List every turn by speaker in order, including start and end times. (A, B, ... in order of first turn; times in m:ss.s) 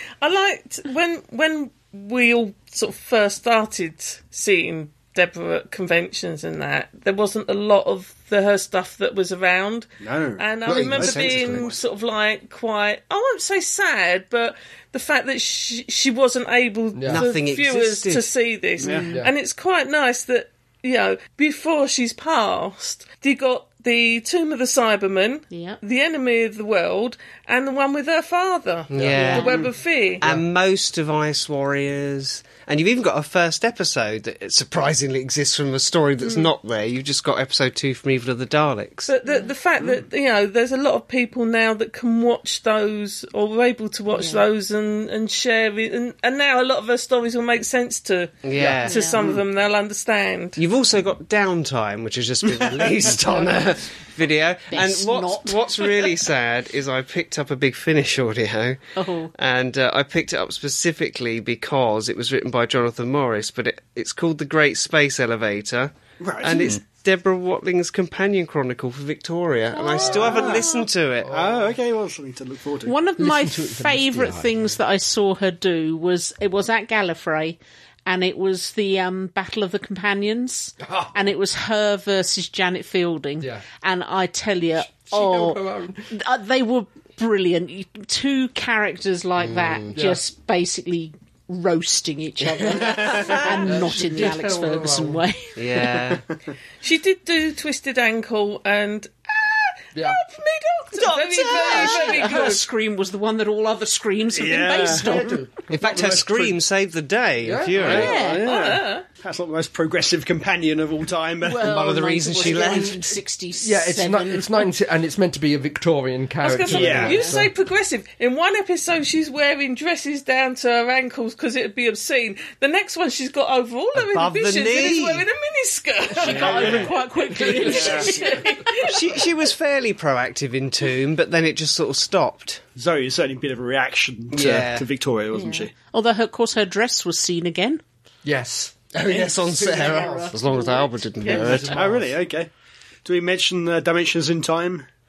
0:00.2-0:30.2 A
0:10.0-0:11.8 B
0:10.6-0:11.6 C
0:10.7-0:11.2 D
0:16.9-0:17.2 C
0:17.1-0:18.3 D
0:18.8-0:19.2 E
0:18.8-0:19.1 B
0:19.0-0:19.3 C
0:25.5-0:25.8 E
0:28.9-0:29.6 D
0:28.9-0:29.3 C
0:29.1-0:29.6 E
0:30.2-0:39.1 D
0:39.1-0:50.6 A
0:44.1-0:44.4 E
0:48.4-0:49.1 D
0:48.8-0:49.3 E
0:50.6-0:58.8 D
0:54.7-0:56.1 E
0:59.0-0:59.3 E
0:59.4-1:11.3 D
1:06.2-1:06.7 B
1:09.7-1:10.8 E
1:10.1-1:10.6 B
1:11.2-1:11.8 C
1:11.3-1:12.9 B
1:12.8-1:35.5 E
1:13.2-1:14.7 C
1:20.8-1:21.3 C
1:24.9-1:26.1 C
1:29.4-1:30.0 D
1:29.9-1:30.2 C
1:32.6-1:33.7 D
1:33.6-1:35.2 C
1:35.6-1:36.2 D
1:36.8-1:42.6 A
1:39.9-1:40.2 C
1:41.0-1:42.4 D
1:41.3-1:45.4 E
1:44.3-1:46.6 B
1:45.0-1:45.5 C
1:45.7-1:48.2 D
1:47.4-1:48.0 C
1:47.7-1:51.7 B
1:47.9-1:48.5 E
1:48.2-1:49.0 A
1:51.4-1:54.7 E
1:51.6-1:53.1 D
1:52.4-1:53.0 C
1:53.6-1:57.5 C
1:56.4-2:09.0 A
1:56.7-1:57.2 B
1:56.8-1:57.4 E
2:03.9-2:05.3 D
2:06.2-2:08.4 E
2:06.3-2:06.9 B
2:07.7-2:08.0 B
2:08.9-2:12.6 D
2:12.8-2:15.7 B
2:14.3-2:14.9 D
2:15.3-2:17.8 E
2:18.2-2:18.7 C
2:18.9-2:21.9 D
2:19.1-2:21.4 E
2:19.4-2:20.4 C
2:21.2-2:21.9 C
2:21.7-2:22.5 B
2:23.0-2:24.9 B